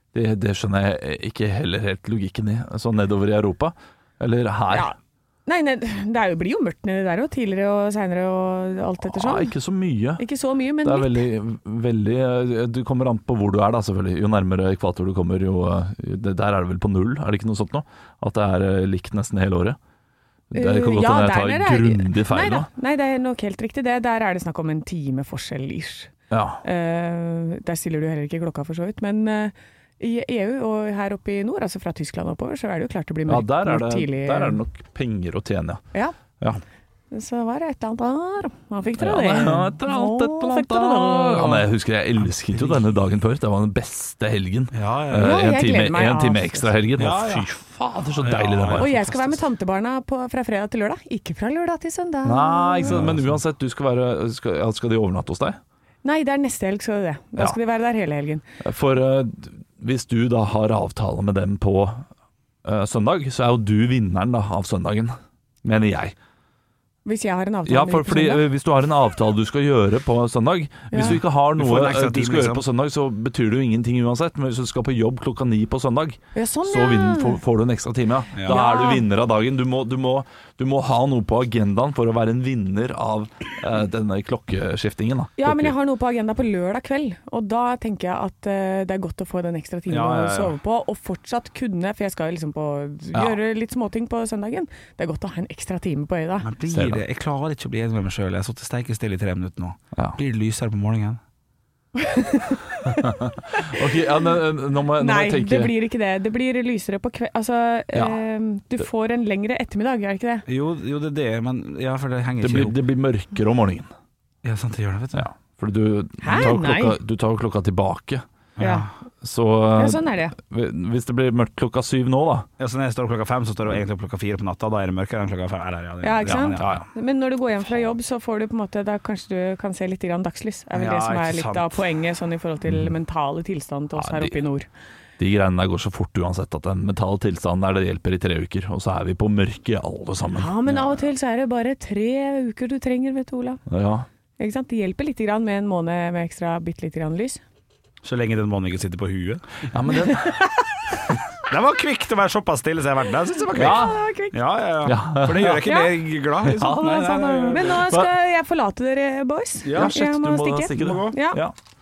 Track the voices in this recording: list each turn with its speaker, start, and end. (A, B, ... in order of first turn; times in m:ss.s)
0:00.1-0:04.9 A
0:04.7-0:09.5 B
0:09.0-0:10.2 A
0:10.2-0:11.2 B
0:10.8-0:19.8 A
0:20.5-0:22.7 A
0:20.5-0:34.6 B
0:26.3-0:26.6 A
0:33.3-0:35.8 A
0:37.1-0:41.6 B
0:39.0-0:49.4 A
0:42.5-0:42.8 C
0:44.7-0:45.4 C
0:45.2-0:46.7 B
0:47.0-0:47.5 C
0:48.2-0:49.0 C
0:48.8-0:53.0 B
0:52.2-0:55.6 A
0:52.9-0:53.3 C
0:56.0-0:58.4 B
0:58.6-1:02.1 A
1:02.6-1:06.1 A
1:07.1-1:08.4 B
1:07.6-1:25.8 A
1:10.9-1:11.2 B
1:11.6-1:12.6 C
1:16.4-1:17.4 B
1:18.4-1:18.6 C
1:18.4-1:19.1 B
1:25.4-1:36.5 B
1:29.9-1:30.6 C
1:36.4-1:41.2 C
1:36.7-1:37.0 A
1:42.0-1:43.8 B
1:42.9-1:45.7 A
1:45.0-1:50.4 B
1:50.5-1:52.8 C
1:52.4-1:53.9 A
1:54.4-1:55.3 C
1:55.1-1:58.2 A
1:56.2-1:57.0 B
1:58.6-1:58.9 C
1:58.6-1:58.9 B
1:59.2-2:02.5 A
1:59.8-2:00.4 B
2:02.6-2:06.9 C
2:06.0-2:14.7 B
2:06.2-2:06.8 A
2:10.8-2:11.8 C
2:14.0-2:14.4 A
2:15.2-2:21.1 A
2:20.3-2:23.6 B
2:23.7-2:24.1 A
2:24.4-2:27.4 B
2:28.0-2:29.7 C
2:29.7-2:30.5 A
2:30.1-2:30.7 B
2:31.4-2:37.9 C
2:33.5-2:34.0 A
2:33.5-2:34.4 B
2:34.8-2:35.7 A
2:35.6-2:35.9 B
2:36.4-2:38.1 A
2:37.1-2:41.4 B
2:39.6-2:40.0 C
2:39.7-2:41.6 A
2:40.7-2:41.2 C